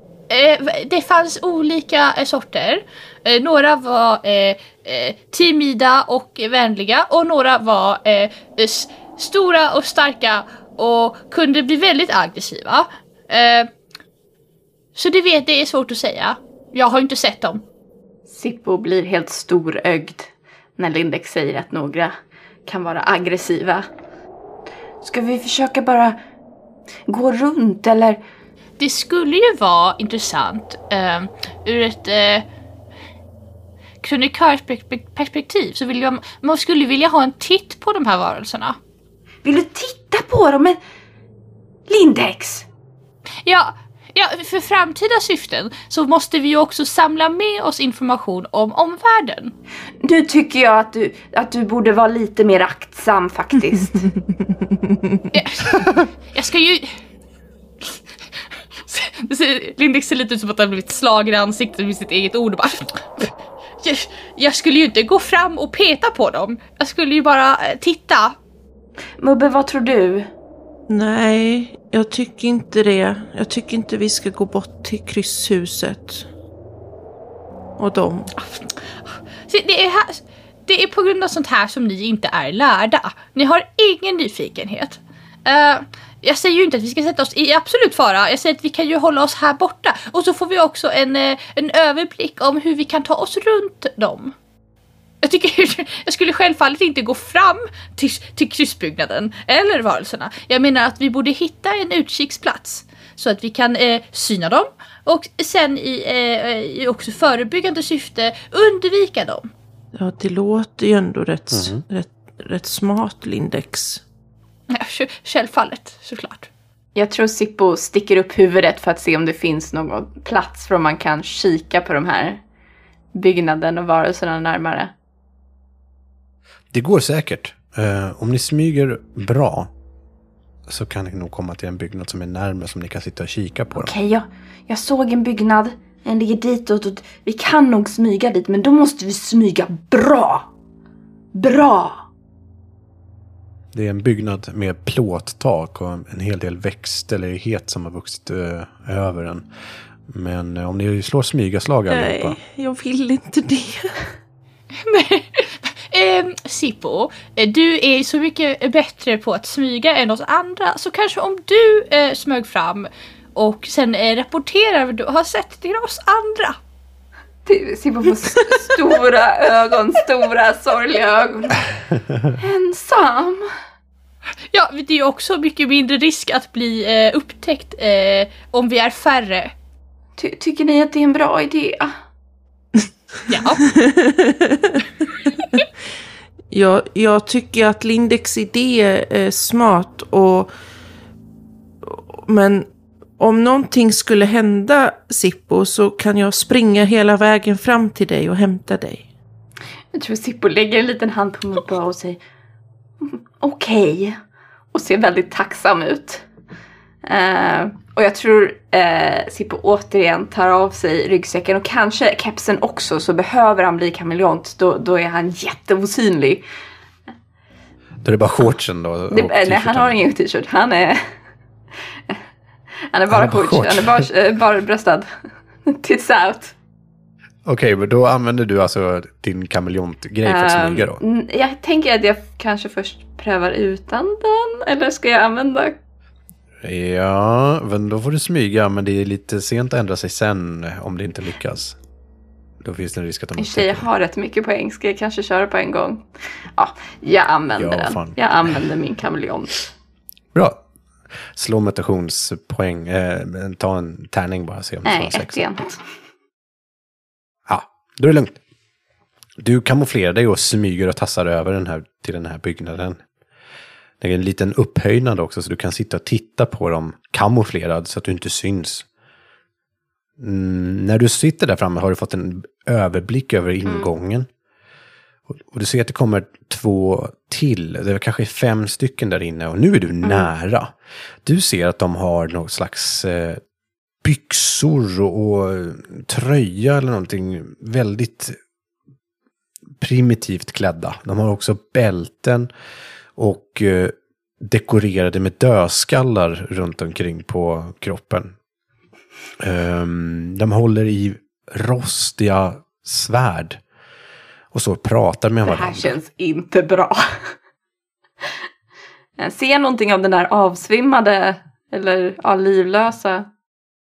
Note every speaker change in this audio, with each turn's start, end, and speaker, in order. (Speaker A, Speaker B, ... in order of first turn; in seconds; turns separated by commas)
Speaker A: 0.3-13.7, Speaker A: 14.9-17.6, Speaker B: 18.3-22.1, Speaker B: 22.7-23.9, Speaker B: 25.0-26.2, Speaker B: 27.1-28.2, Speaker A: 28.8-32.5, Speaker A: 34.0-38.8, Speaker B: 39.4-40.8, Speaker B: 41.9-42.7, Speaker A: 43.4-49.5, Speaker B: 50.0-54.1, Speaker A: 55.3-57.0, Speaker A: 58.9-68.3, Speaker B: 69.2-70.3, Speaker C: 70.9-76.3, Speaker C: 77.8-78.3, Speaker A: 78.4-78.7, Speaker A: 79.5-94.3, Speaker A: 95.2-109.5, Speaker C: 109.9-114.0, Speaker D: 111.5-111.8, Speaker A: 114.7-116.5, Speaker B: 117.0-122.4, Speaker B: 123.2-124.9, Speaker D: 126.7-129.7, Speaker D: 130.7-133.9, Speaker B: 133.8-140.5, Speaker B: 141.3-142.1, Speaker D: 143.7-149.5, Speaker D: 150.1-152.4, Speaker C: 151.9-154.1, Speaker A: 154.8-166.6, Speaker B: 167.5-171.7, Speaker B: 172.3-173.5, Speaker A: 174.5-179.5, Speaker B: 180.2-181.9, Speaker A: 183.3-183.6, Speaker C: 183.7-184.8, Speaker C: 186.5-190.5, Speaker C: 191.8-192.7, Speaker C: 193.2-199.1, Speaker B: 199.9-202.2, Speaker B: 203.0-204.2, Speaker B: 204.7-206.2, Speaker B: 207.0-216.4, Speaker D: 218.0-220.0, Speaker B: 219.1-221.0, Speaker B: 222.9-225.1, Speaker D: 223.1-224.0, Speaker B: 225.7-226.6, Speaker D: 227.4-231.0, Speaker B: 230.2-235.8, Speaker D: 236.6-241.8, Speaker D: 242.6-243.9, Speaker B: 243.4-249.7, Speaker D: 247.6-248.2, Speaker D: 250.3-250.6, Speaker D: 251.3-255.4, Speaker B: 254.8-255.8, Speaker D: 257.5-258.4, Speaker D: 259.4-263.0, Speaker D: 264.0-268.9, Speaker D: 270.2-274.3, Speaker D: 275.3-283.4, Speaker D: 284.0-288.4, Speaker D: 289.8-292.5, Speaker D: 293.2-298.3, Speaker D: 299.4-303.6, Speaker D: 304.5-306.0, Speaker B: 305.5-307.3, Speaker B: 309.2-313.3